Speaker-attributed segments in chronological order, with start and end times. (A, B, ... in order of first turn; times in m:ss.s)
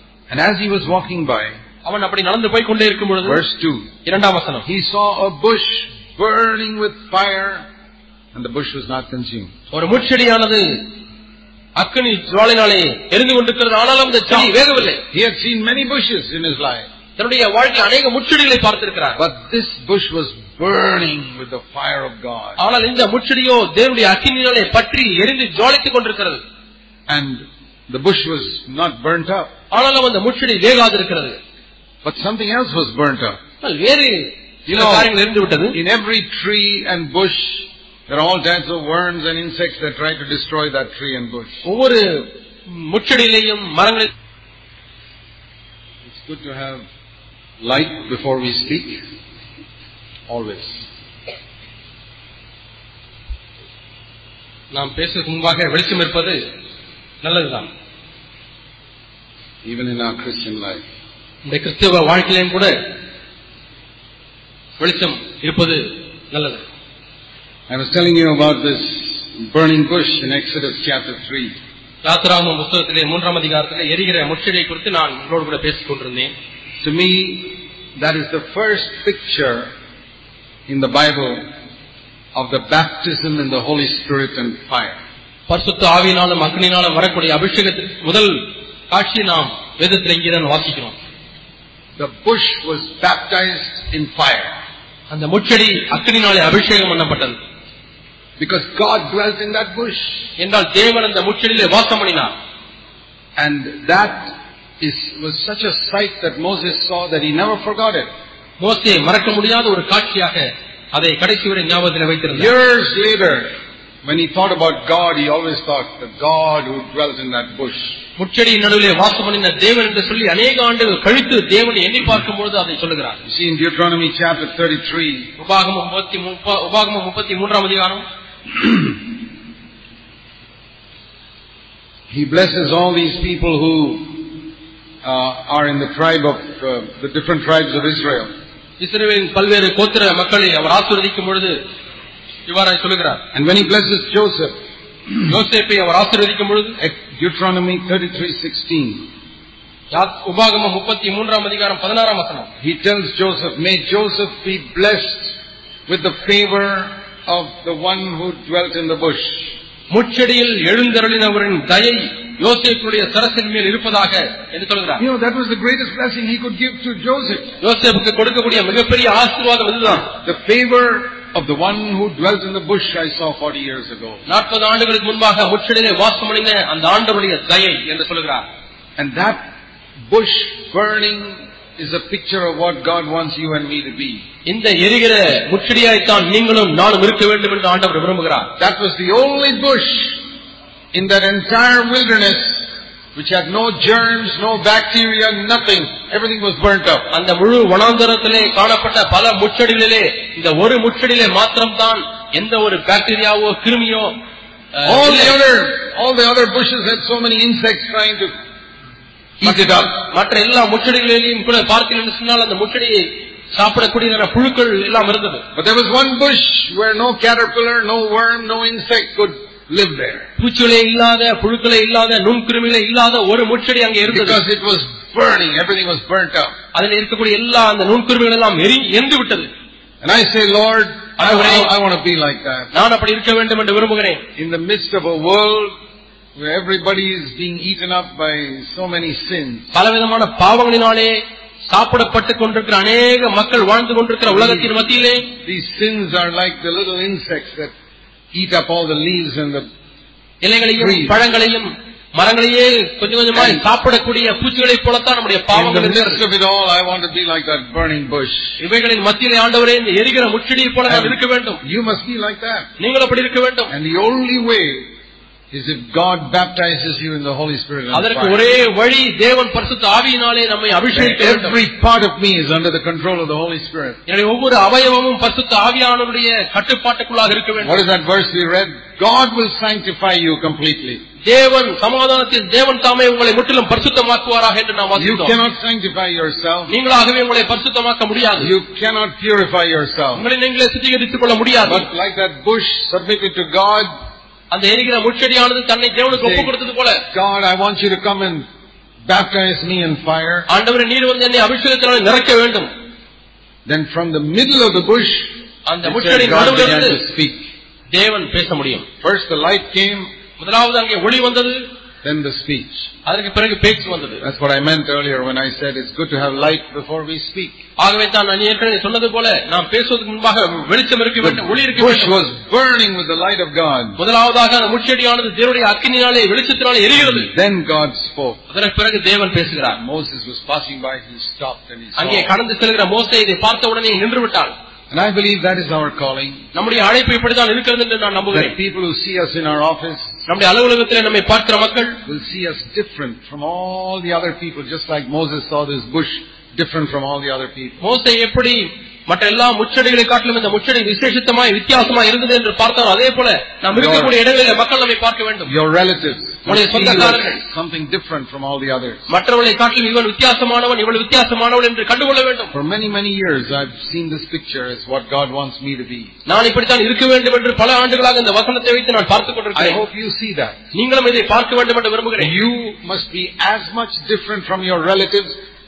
0:00.3-0:01.5 A
0:01.8-0:03.4 B
0:03.2-0:03.9 A
0:04.0-0:04.6 B
0:04.6-0:07.6 A
0:08.3-0:09.5 A
0:09.7-0:10.8 B
0:11.8-0:15.0 B
0:15.1-0:16.8 A
0:17.2-0:19.2 B
0:19.2-0:22.6 A
0:22.6-0:26.4 B
0:27.1-0:29.5 A
0:29.7-0:31.4 B
0:32.0-0:33.4 A
0:33.6-0:35.8 B
0:34.7-0:35.1 A
0:35.7-0:41.6 A
0:41.6-0:44.1 B
0:46.0-0:46.8 A
0:47.6-0:49.0 A
0:50.3-0:50.8 A
0:54.7-0:56.4 B
0:57.2-0:57.7 B
0:59.6-1:00.8 A
1:01.4-1:02.7 B
1:04.8-1:06.6 B
1:07.7-1:11.5 A
1:12.0-1:16.3 B
1:16.8-1:19.7 A
1:20.7-1:21.4 A
1:22.3-1:25.0 A
1:25.5-1:30.9 B
1:32.0-1:34.5 A
1:35.1-1:37.4 B
1:38.4-1:40.2 A
1:40.4-1:42.3 B
1:43.4-1:48.1 A
1:48.6-1:52.5 B
1:52.3-1:53.5 A
1:54.0-1:57.9 A
1:58.2-2:03.2 B
2:03.2-2:05.3 A
2:05.4-2:08.0 B
2:12.1-2:14.4 A
2:15.0-2:18.3 A
2:18.8-2:21.6 B
2:22.5-2:23.2 B
2:23.3-2:24.6 A
2:25.2-2:26.8 B
2:26.8-2:29.1 A
2:29.9-2:32.5 B
2:32.6-2:35.3 A
2:35.9-2:39.4 A
2:39.9-2:45.0 B
2:45.0-2:47.5 A
2:47.6-2:50.1 B
2:50.1-2:54.2 A
2:54.3-2:58.4 B
2:59.0-2:59.4 A
3:00.1-3:04.2 A
3:04.4-3:08.5 B
3:08.6-3:10.2 A
3:10.9-3:17.1 A
3:17.1-3:24.1 B
3:24.7-3:25.4 B
3:24.8-3:28.3 A
3:29.4-3:29.9 A
3:29.4-3:35.4 B
3:35.5-3:40.2 A
3:40.4-3:44.4 B
3:44.1-3:46.5 A
3:46.7-3:49.5 B
3:50.0-3:52.7 A
3:51.2-3:51.7 B
3:52.7-3:54.2 B
3:54.4-3:55.7 A
3:56.4-3:59.7 A
3:59.7-4:05.3 B
4:04.2-4:07.7 A
4:08.3-4:09.6 A
4:10.4-4:16.2 B
4:10.8-4:11.2 A
4:13.3-4:13.6 A
4:15.5-4:18.6 A
4:18.6-4:21.6 B
4:20.9-4:22.6 A
4:22.8-4:23.7 B
4:23.7-4:24.9 A
4:25.5-4:28.4 A
4:27.9-4:31.6 B
4:30.9-4:34.0 A
4:34.1-4:37.8 B
4:37.6-4:41.0 A
4:41.2-4:45.3 B
4:45.0-4:46.7 A
4:46.7-4:48.5 B
4:48.4-4:50.2 A
4:50.1-4:51.9 B
4:51.6-4:53.9 A
4:54.5-4:57.0 B
4:56.1-4:56.5 A
4:57.1-4:58.4 A
4:59.1-5:00.5 A
5:00.5-5:02.7 B
5:03.6-5:07.4 A
5:05.6-5:07.0 B
5:07.9-5:08.8 B
5:09.0-5:10.1 A
5:10.4-5:11.6 B
5:12.0-5:12.8 A
5:13.0-5:14.2 B
5:14.2-5:17.6 A
5:17.8-5:22.2 B
5:21.2-5:24.0 A
5:24.0-5:27.3 B
5:27.1-5:28.4 A
5:28.5-5:29.8 B
5:29.7-5:32.3 A
5:32.0-5:34.5 B
5:34.9-5:36.4 A
5:36.5-5:38.5 B
5:38.3-5:40.1 A
5:40.3-5:42.0 B
5:42.0-5:47.8 A
5:47.8-5:55.5 B
5:53.7-5:54.2 A
5:55.4-5:59.1 A
5:56.4-5:57.4 B
5:59.1-6:02.5 B
6:02.5-6:06.1 A
6:06.3-6:09.8 B
6:09.5-6:10.6 A
6:10.7-6:12.3 B
6:12.2-6:15.3 A